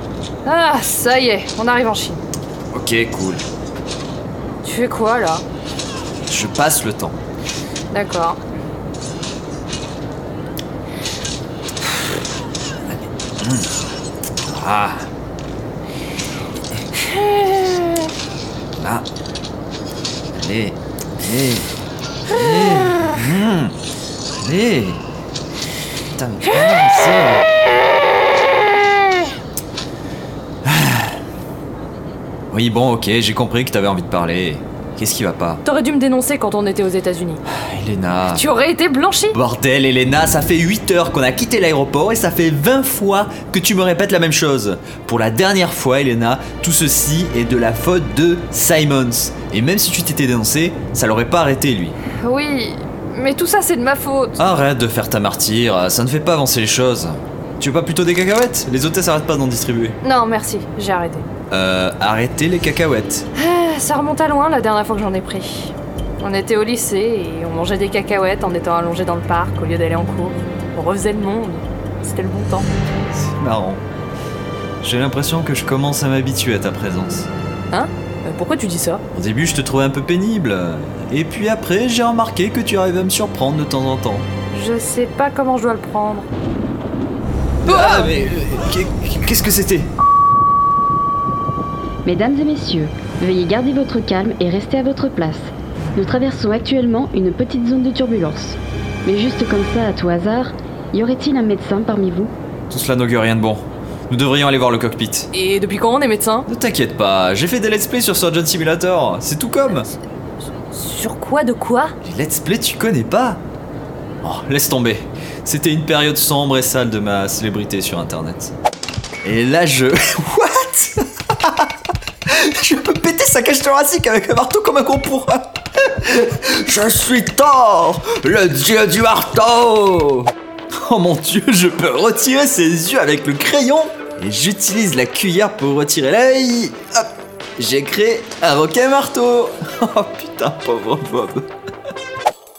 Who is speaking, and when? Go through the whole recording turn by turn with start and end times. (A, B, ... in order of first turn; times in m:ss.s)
0:00.4-0:02.2 A
0:02.7-0:03.4 B
0:04.6-0:05.4 A
0:06.2-0:07.2 B
0:07.9-0:08.4 A
0:12.9-0:13.7 B
0:14.4-0:15.1 B
0:17.1-0:18.0 A
0:18.8-0:19.0 B
0:20.3-0:21.7 B
0:22.2-0:23.8 B
0:24.4-0:25.0 B
0:26.1-0:27.4 B
0:30.6-0:31.2 B
0:32.5-0:35.6 B
0:35.6-0:37.4 A
0:37.5-0:38.4 B
0:38.3-0:39.3 A
0:39.3-0:52.0 B
0:52.2-0:54.4 A
0:54.4-1:00.0 B
1:00.0-1:01.3 A
1:01.5-1:03.2 B
1:03.4-1:12.7 A
1:13.1-1:13.8 B
1:14.8-1:17.3 B
1:17.7-1:19.0 A
1:19.1-1:24.3 B
1:24.5-1:26.3 A
1:27.6-1:29.9 B
1:27.6-1:28.1 A
1:32.0-1:42.3 C
1:42.7-1:45.3 B
1:45.3-1:46.5 A
1:46.5-1:49.9 B
1:50.7-1:51.9 A
1:52.0-1:53.4 B
1:54.2-1:58.5 B
1:59.2-2:01.7 B
2:02.2-2:21.5 B